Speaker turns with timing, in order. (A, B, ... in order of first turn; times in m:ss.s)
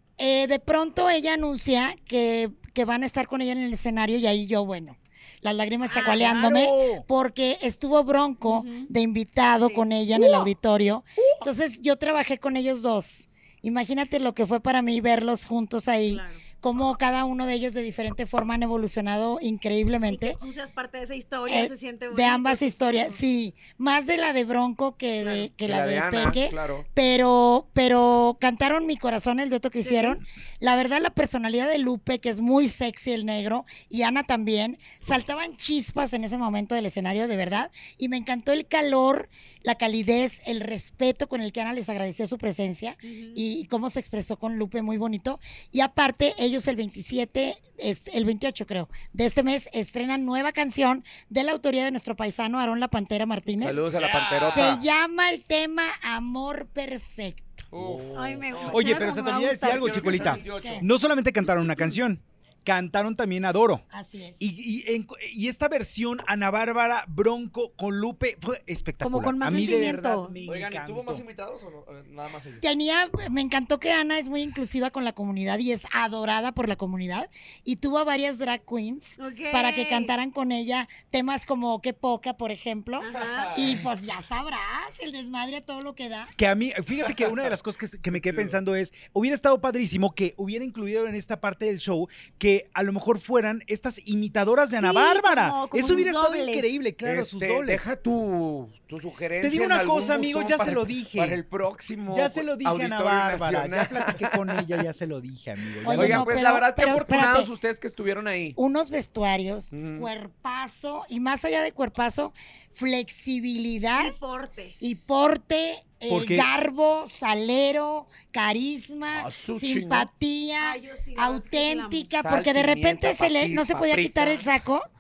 0:00.2-0:20.4 A
0:05.9-0:06.3 B
0:06.0-0:07.1 C
0:08.4-0:08.9 B
0:09.6-0:10.5 B
0:16.1-0:16.4 B
0:20.1-0:23.2 B
0:21.5-0:53.9 A
0:25.2-0:25.5 B
0:25.6-0:26.8 D
0:29.8-0:30.2 B
0:43.0-0:43.4 B
0:53.6-0:54.8 D
0:53.9-0:54.8 E
0:54.4-0:57.7 A
0:57.7-1:00.8 E
0:57.7-0:58.9 D
0:58.1-1:00.4 B
0:58.7-1:03.8 C
1:00.2-1:00.8 A
1:03.9-1:04.4 A
1:04.4-1:11.2 C
1:09.0-1:10.4 B
1:10.4-1:12.6 E
1:12.6-1:26.3 A
1:19.2-1:20.1 B
1:23.0-1:23.7 B
1:23.2-1:23.8 E
1:26.4-1:37.9 C
1:34.8-1:36.8 B
1:37.0-1:44.7 D
1:39.4-1:41.4 C
1:42.1-1:46.4 C
1:45.8-1:47.5 A
1:45.9-1:48.6 D
1:48.6-1:54.2 A
1:49.7-1:50.1 D
1:53.9-1:54.8 B
1:54.8-2:04.9 A
1:56.1-1:56.5 C
1:59.1-2:00.1 D
2:00.6-2:02.1 B
2:02.2-2:04.5 D